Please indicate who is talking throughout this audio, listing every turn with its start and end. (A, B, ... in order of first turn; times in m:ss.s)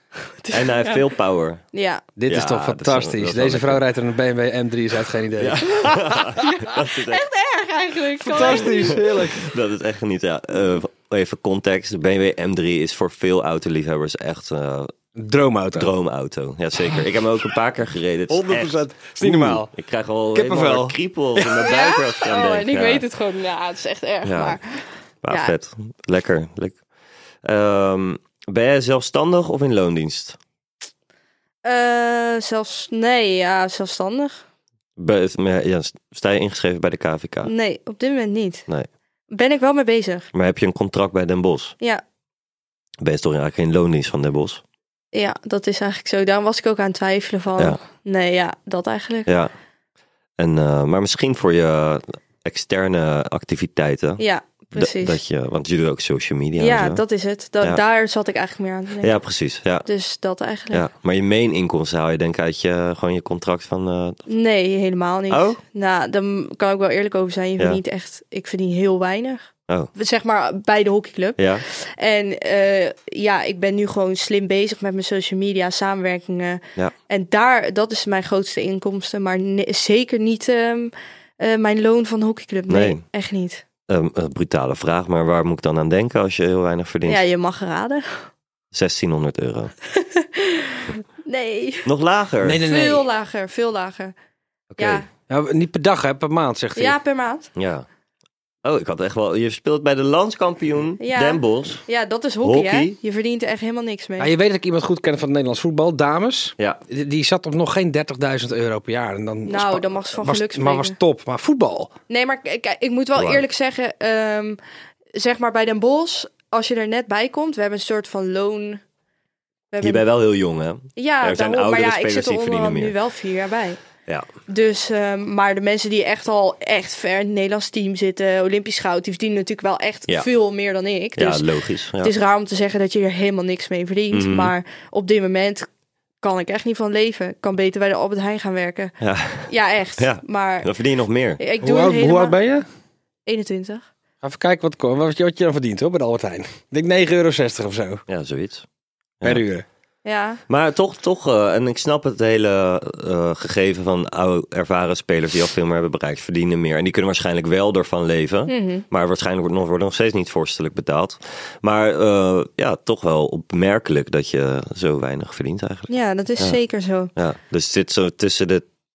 0:00.4-0:01.1 A
0:00.5-0:01.6 B
0:01.7-0:02.0 A
0:02.2-0:06.3 C
0:02.3-0:03.8 B
0:05.4-0:07.2 B
0:06.4-0:09.0 A
0:08.2-0:09.5 C
0:08.5-0:14.9 B
0:15.2-0:15.9 C
0:15.7-0:23.0 B
0:18.3-0:19.7 C
0:20.3-0:21.6 C
0:21.6-0:25.5 A
0:24.2-0:24.6 B
0:25.2-0:26.8 B
0:27.4-0:30.4 B
0:31.6-0:34.4 A
0:35.0-0:37.5 B
0:37.4-0:38.7 A
0:39.3-0:40.3 A
0:40.3-0:41.8 B
0:43.0-0:44.6 B
0:45.1-0:49.3 A
0:50.4-0:54.2 B
0:54.2-0:55.2 A
0:54.8-0:57.0 B
0:56.6-0:59.1 A
0:59.0-0:59.9 B
0:59.8-1:00.9 A
1:00.7-1:04.2 B
1:04.3-1:23.6 A
1:05.3-1:05.6 B
1:11.4-1:11.6 B
1:22.7-1:23.0 B
1:23.9-1:27.2 B
1:27.1-1:28.3 A
1:28.7-1:29.7 B
1:30.0-1:31.9 A
1:31.8-1:32.6 B
1:32.4-1:33.1 C
1:32.6-1:34.1 A
1:34.7-1:35.0 B
1:34.8-1:35.1 A
1:35.3-1:37.0 C
1:36.8-1:37.5 A
1:37.6-1:37.9 B
1:38.6-1:41.8 B
1:41.0-1:44.3 A
1:42.4-1:43.0 B
1:44.2-1:51.9 C
1:49.5-1:51.0 A
1:52.1-1:54.6 A
1:53.2-1:53.4 B
1:55.2-1:58.8 A
1:59.7-2:00.0 A
1:59.8-2:03.0 B
2:01.0-2:03.8 A
2:04.5-2:11.4 A
2:11.2-2:12.1 B
2:12.0-2:15.7 A
2:14.1-2:14.5 B
2:16.2-2:18.9 A
2:19.0-2:21.4 B
2:19.4-2:20.7 A
2:21.4-2:22.4 A
2:21.6-2:22.6 C
2:23.3-2:23.9 A
2:24.2-2:28.0 C
2:28.1-2:28.7 B
2:29.2-2:29.6 C
2:30.0-2:30.4 A
2:30.5-2:46.6 B
2:38.5-2:38.8 A
2:45.9-2:47.1 A
2:47.2-2:48.6 B